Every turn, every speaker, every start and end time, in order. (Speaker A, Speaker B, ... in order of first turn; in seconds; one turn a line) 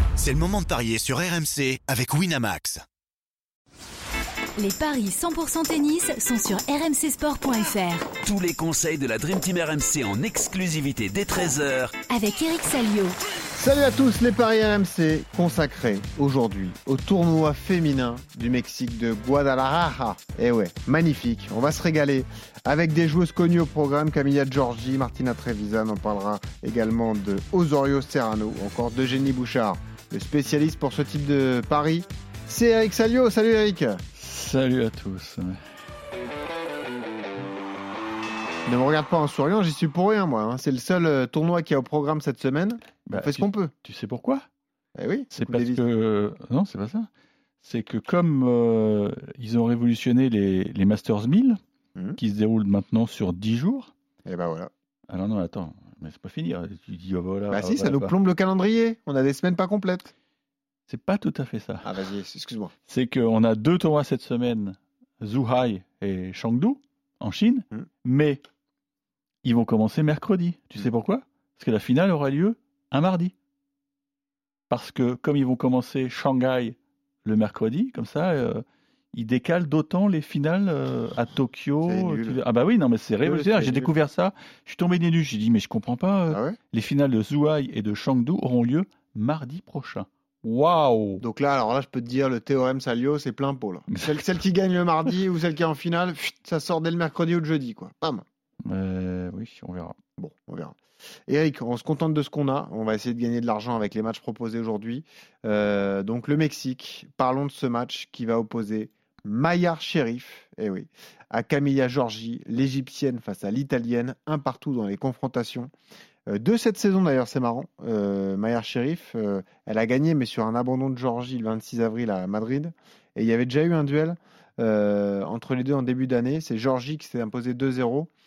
Speaker A: 0.2-2.8
Speaker B: 4.6-8.2
Speaker C: 8.2-11.9
Speaker B: 12.1-13.2
Speaker D: 13.6-34.0
Speaker E: 34.1-35.6
Speaker D: 38.7-43.7
Speaker E: 43.1-44.5
Speaker D: 45.0-45.8
Speaker E: 45.3-47.1
Speaker E: 47.6-51.6
Speaker E: 52.2-53.9
Speaker D: 54.3-54.7
Speaker E: 55.1-58.1
Speaker D: 57.5-60.1
Speaker E: 60.9-61.9
Speaker D: 61.8-62.7
Speaker E: 62.9-68.4
Speaker E: 69.4-73.3
Speaker E: 74.7-91.2
Speaker D: 81.8-82.4
Speaker D: 83.2-83.9
Speaker D: 86.3-86.6
Speaker D: 91.2-98.2
Speaker E: 93.9-94.4
Speaker E: 98.7-100.0
Speaker D: 100.2-100.8
Speaker D: 101.3-115.7
Speaker D: 116.3-128.1